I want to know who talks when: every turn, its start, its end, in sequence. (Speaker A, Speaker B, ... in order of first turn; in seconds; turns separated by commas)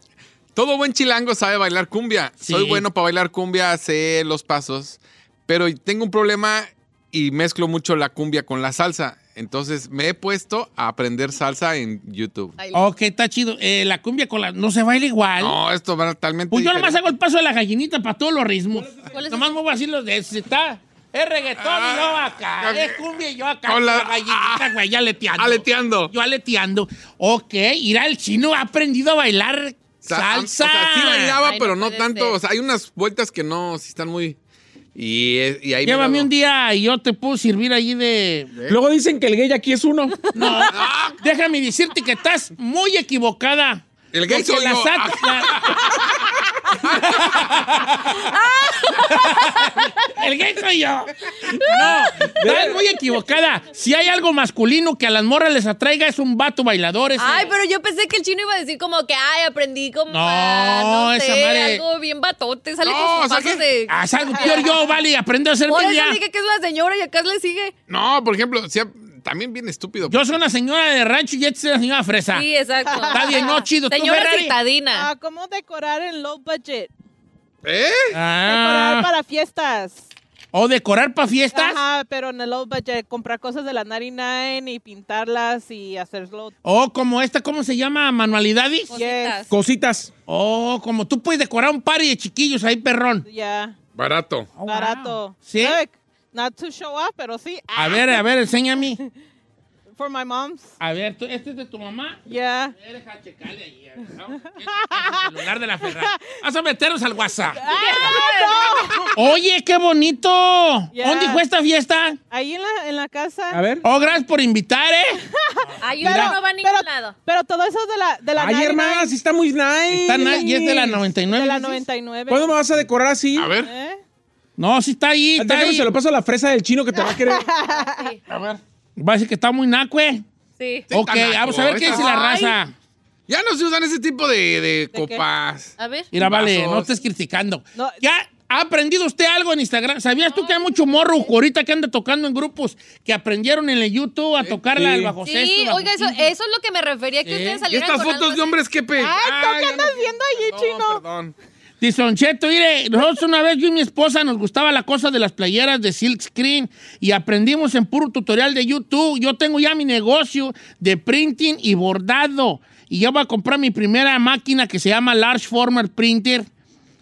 Speaker A: 0.6-12.6, Speaker B: 2.4-2.8, Speaker C: 12.6-12.8, Speaker B: 12.7-15.6, Speaker A: 15.4-17.0, Speaker B: 16.5-31.4, Speaker C: 19.0-19.5, Speaker A: 21.6-23.0, Speaker A: 23.7-24.6, Speaker A: 25.4-26.1, Speaker A: 30.0-34.4, Speaker C: 31.4-32.4, Speaker A: 35.0-36.3, Speaker B: 35.8-38.5, Speaker D: 38.7-40.3, Speaker B: 40.3-45.8, Speaker A: 40.7-41.2, Speaker A: 44.1-46.2, Speaker A: 46.9-47.4, Speaker B: 47.0-47.9, Speaker C: 48.3-49.9, Speaker B: 49.6-57.5, Speaker C: 51.5-52.4, Speaker D: 52.4-52.8, Speaker C: 57.2-64.8, Speaker B: 60.1-61.8, Speaker A: 62.8-63.6, Speaker B: 63.9-66.2, Speaker E: 64.3-64.9, Speaker C: 65.7-67.7, Speaker A: 67.9-70.2, Speaker B: 70.1-72.5, Speaker C: 72.3-75.1, Speaker E: 72.8-73.6, Speaker B: 73.1-74.6, Speaker E: 74.9-76.9, Speaker A: 77.6-78.2, Speaker B: 78.1-79.1, Speaker E: 78.4-80.1, Speaker B: 80.5-81.8, Speaker E: 81.5-86.5, Speaker B: 86.6-88.9, Speaker E: 88.9-89.4, Speaker C: 88.9-89.5, Speaker D: 89.5-90.1, Speaker B: 90.3-93.2, Speaker E: 93.2-93.8, Speaker A: 94.0-94.5, Speaker B: 94.6-95.8, Speaker E: 94.6-98.2, Speaker B: 97.8-99.0, Speaker E: 100.0-100.7, Speaker B: 100.8-102.2, Speaker E: 102.3-102.8, Speaker B: 102.8-108.2, Speaker E: 104.8-105.3, Speaker E: 105.8-106.4, Speaker E: 107.6-109.1, Speaker C: 107.7-109.1, Speaker B: 109.1-112.2, Speaker E: 110.9-111.5, Speaker E: 112.3-113.6, Speaker D: 113.5-113.8, Speaker B: 113.8-115.2, Speaker E: 115.3-119.2, Speaker C: 115.8-117.2, Speaker D: 116.0-116.3, Speaker D: 118.4-121.0, Speaker B: 119.9-121.9, Speaker E: 121.3-122.6, Speaker D: 122.3-123.5, Speaker A: 123.4-123.7, Speaker E: 123.6-124.0, Speaker B: 124.6-125.9, Speaker D: 125.4-127.5, Speaker E: 127.1-128.2, Speaker C: 127.8-128.2, Speaker B: 128.6-130.2, Speaker C: 130.6-130.9, Speaker A: 130.9-132.1, Speaker B: 130.9-132.7, Speaker C: 131.8-132.6, Speaker A: 133.3-136.9, Speaker E: 134.9-135.2, Speaker C: 135.8-136.1, Speaker B: 136.1-146.3, Speaker E: 137.8-138.0, Speaker C: 140.3-141.0, Speaker D: 144.8-145.2, Speaker C: 145.2-148.5, Speaker B: 147.2-147.6, Speaker A: 147.7-151.3, Speaker E: 149.0-151.0, Speaker B: 151.8-166.5